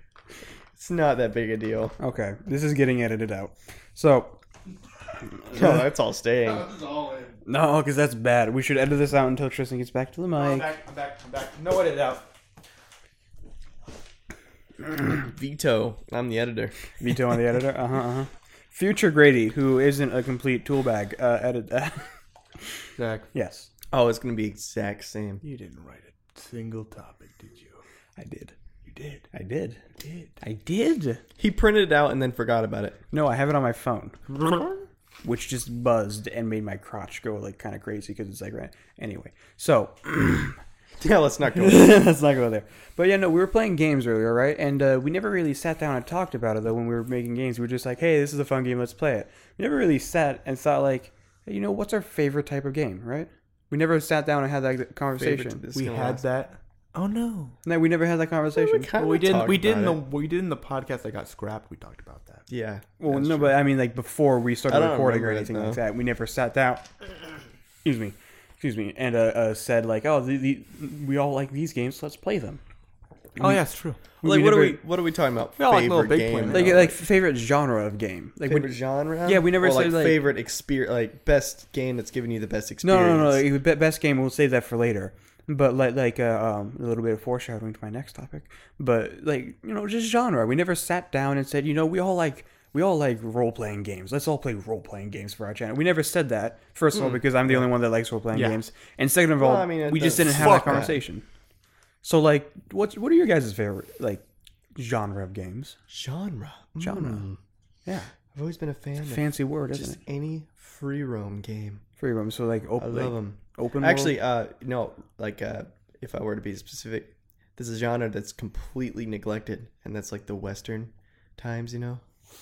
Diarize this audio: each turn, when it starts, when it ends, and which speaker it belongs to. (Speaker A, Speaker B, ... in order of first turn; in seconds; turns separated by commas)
Speaker A: 0.8-1.9, Speaker B: 2.0-4.4, Speaker B: 5.3-5.8, Speaker A: 5.5-6.7, Speaker C: 6.4-7.4, Speaker B: 7.5-10.7, Speaker C: 10.3-12.3, Speaker A: 15.1-16.7, Speaker B: 17.0-22.1, Speaker C: 23.0-23.3, Speaker B: 23.3-23.7, Speaker A: 23.9-25.4, Speaker C: 25.4-27.8, Speaker B: 28.2-28.5, Speaker C: 28.8-29.3, Speaker B: 29.3-29.8, Speaker C: 30.0-30.4, Speaker B: 30.4-31.2, Speaker A: 31.4-33.0, Speaker B: 33.1-34.4, Speaker B: 35.2-40.6, Speaker A: 41.0-42.0, Speaker B: 41.5-55.6, Speaker A: 55.2-56.2, Speaker C: 55.7-57.6, Speaker B: 57.6-58.9, Speaker A: 58.5-60.0, Speaker C: 58.9-62.4, Speaker A: 62.5-63.5, Speaker B: 63.0-66.9, Speaker A: 64.7-65.8, Speaker B: 67.8-72.6, Speaker B: 73.4-73.6, Speaker C: 73.4-74.0, Speaker B: 74.2-74.8, Speaker A: 74.2-76.9, Speaker C: 75.6-76.9, Speaker B: 76.5-78.7, Speaker A: 78.5-83.4, Speaker B: 79.2-80.2, Speaker B: 82.8-101.2, Speaker C: 98.3-98.6, Speaker A: 99.4-101.0, Speaker C: 100.2-100.9, Speaker B: 102.0-104.2, Speaker B: 104.8-105.8, Speaker A: 105.9-107.3, Speaker B: 106.8-108.1, Speaker A: 108.3-111.8, Speaker B: 109.0-110.0, Speaker B: 112.0-114.2, Speaker A: 112.8-122.0